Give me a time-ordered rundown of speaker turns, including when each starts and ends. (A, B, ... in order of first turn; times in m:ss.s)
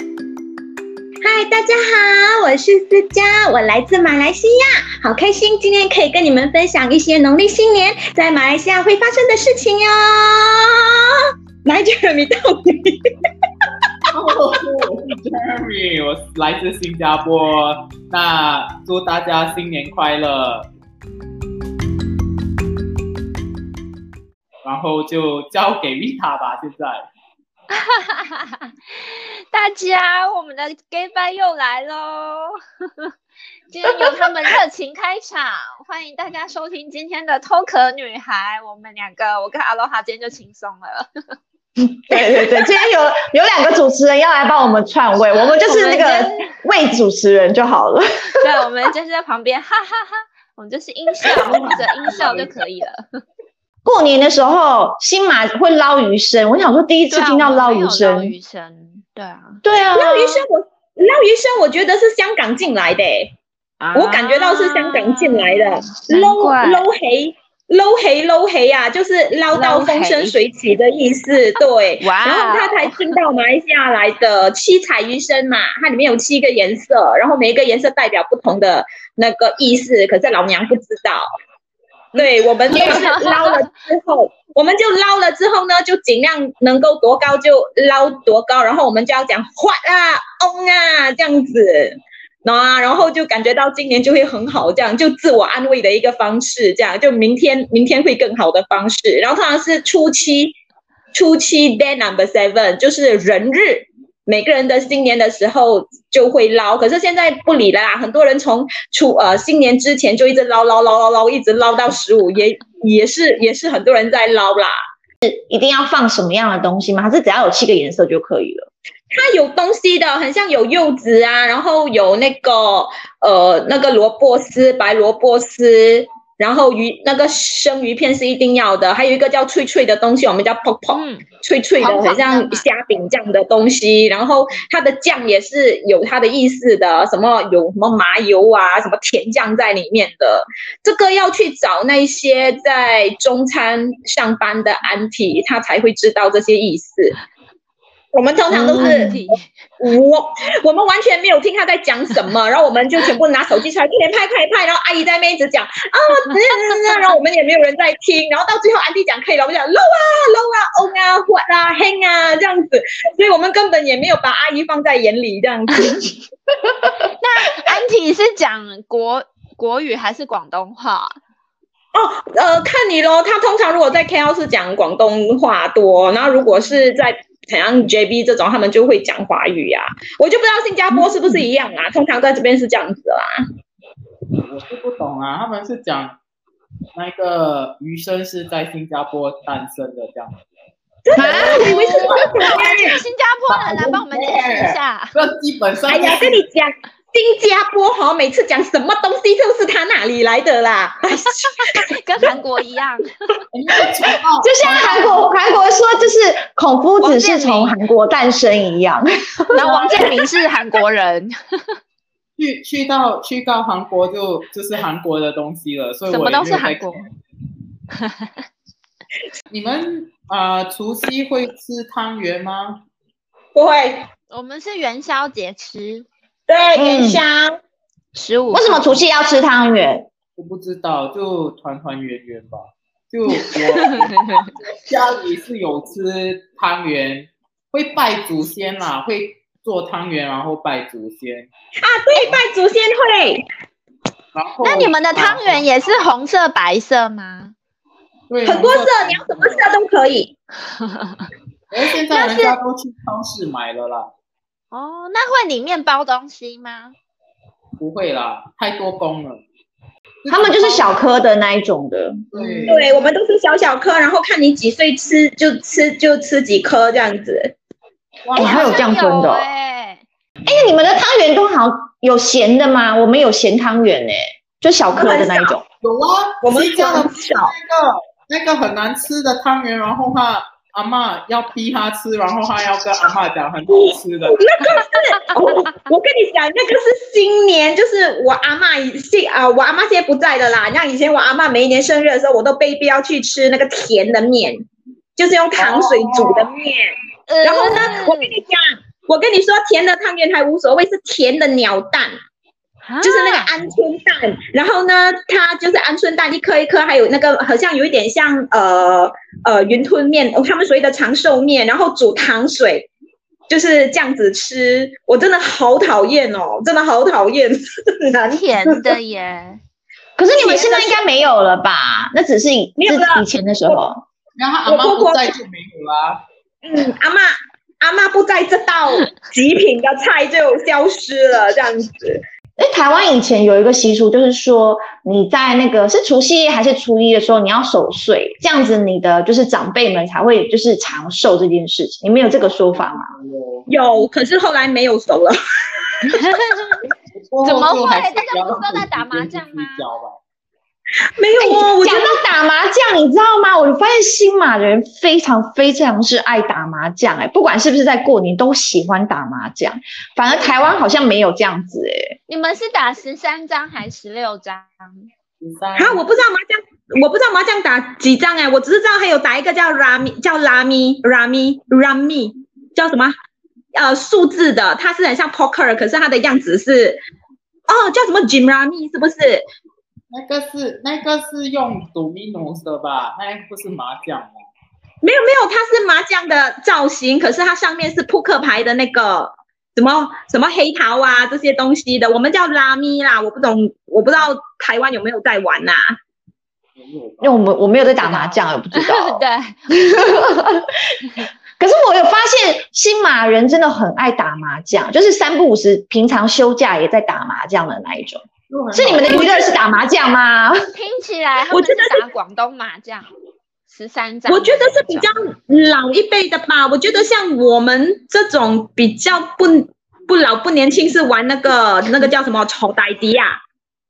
0:01.2-0:13.0 A
0:14.1-0:20.7 B
0:24.6-0:27.1 B
0:27.7-0:32.5 C
0:33.7-0:41.1 C
0:41.8-0:48.0 D
0:45.5-0:46.5 C
0:48.3-0:53.0 C
0:51.3-0:51.9 D
0:51.3-0:51.6 A
0:51.5-0:52.6 B
0:53.8-0:58.3 D
0:57.1-0:59.6 C
0:59.6-1:00.4 D
0:59.9-1:03.3 A
1:03.8-1:06.9 C
1:03.9-1:21.2 A
1:09.5-1:10.4 C
1:12.0-1:13.1 C
1:22.1-1:23.7 C
1:22.2-1:40.5 A
1:22.7-1:23.0 D
1:41.1-1:54.8 A
1:55.2-1:58.7 D
1:59.1-2:27.2 A
2:10.9-2:11.2 C
2:11.8-2:12.7 C
2:28.1-2:29.2 A
2:28.5-2:29.2 D
2:28.5-2:29.5 C
2:29.8-2:46.1 A
2:47.2-2:51.2 C
2:51.9-3:03.3 A
3:04.4-3:06.2 B
3:06.9-3:10.4 B
3:11.0-3:13.0 A
3:11.2-3:12.0 D
3:11.2-3:15.1 C
3:13.5-3:16.5 B
3:15.9-3:21.9 A
3:21.8-3:23.4 C
3:23.5-3:25.3 B
3:24.4-3:30.1 D
3:27.0-3:27.8 C
3:29.5-3:31.3 C
3:29.6-3:30.0 B
3:32.4-3:37.1 B
3:36.1-3:37.1 C
3:38.0-3:38.3 C
3:39.5-3:42.8 B
3:43.6-3:44.1 A
3:44.3-3:46.1 C
3:46.5-3:47.6 A
3:46.8-3:47.2 D
3:48.2-3:49.0 C
3:48.5-3:50.1 D
3:50.4-4:01.5 B
3:54.0-3:54.4 C
4:01.8-4:03.4 A
4:02.2-4:02.4 B
4:04.3-4:05.7 B
4:04.6-4:07.5 C
4:08.3-4:09.7 B
4:08.5-4:10.3 A
4:11.7-4:14.1 B
4:12.1-4:12.6 C
4:14.7-4:16.9 C
4:17.8-4:19.4 B
4:20.2-4:21.0 B
4:20.3-4:22.1 D
4:22.3-4:22.9 B
4:22.4-4:23.0 C
4:22.7-4:27.5 A
4:28.2-4:28.9 B
4:28.4-4:29.5 D
4:28.4-4:30.0 C
4:30.4-4:35.6 D
4:34.9-4:35.6 A
4:35.8-4:44.8 B
4:36.4-4:37.5 A
4:43.9-4:54.6 A
4:55.2-5:02.1 A
4:55.6-4:56.5 B
4:57.3-4:58.3 C
5:02.9-5:03.5 C
5:03.0-5:12.9 A
5:13.5-5:19.0 A
5:18.2-5:19.6 C
5:20.2-5:24.0 D
5:20.3-5:21.0 C
5:20.4-5:20.8 A
5:22.8-5:23.8 A
5:24.4-5:26.2 B
5:24.6-5:25.3 A
5:26.6-5:27.3 A
5:27.8-5:32.2 A
5:32.6-5:43.1 D
5:42.8-5:43.7 B
5:43.7-5:46.7 A
5:46.1-5:46.8 C
5:46.9-5:50.2 B
5:47.4-5:49.8 C
5:51.2-5:52.2 A
5:51.4-6:02.2 D
6:02.3-6:04.7 C
6:05.4-6:06.0 B
6:05.8-6:13.1 A
6:13.7-6:17.0 A
6:17.7-6:19.4 A
6:20.1-6:24.5 B
6:25.0-6:35.9 A
6:36.8-6:37.4 B
6:37.2-6:40.7 D
6:38.0-6:39.5 C
6:41.6-6:50.6 D
6:48.5-6:49.3 B
6:49.1-6:49.5 A
6:50.7-6:53.1 C
6:51.5-6:52.0 A
6:53.7-6:55.1 C
6:54.3-7:03.4 A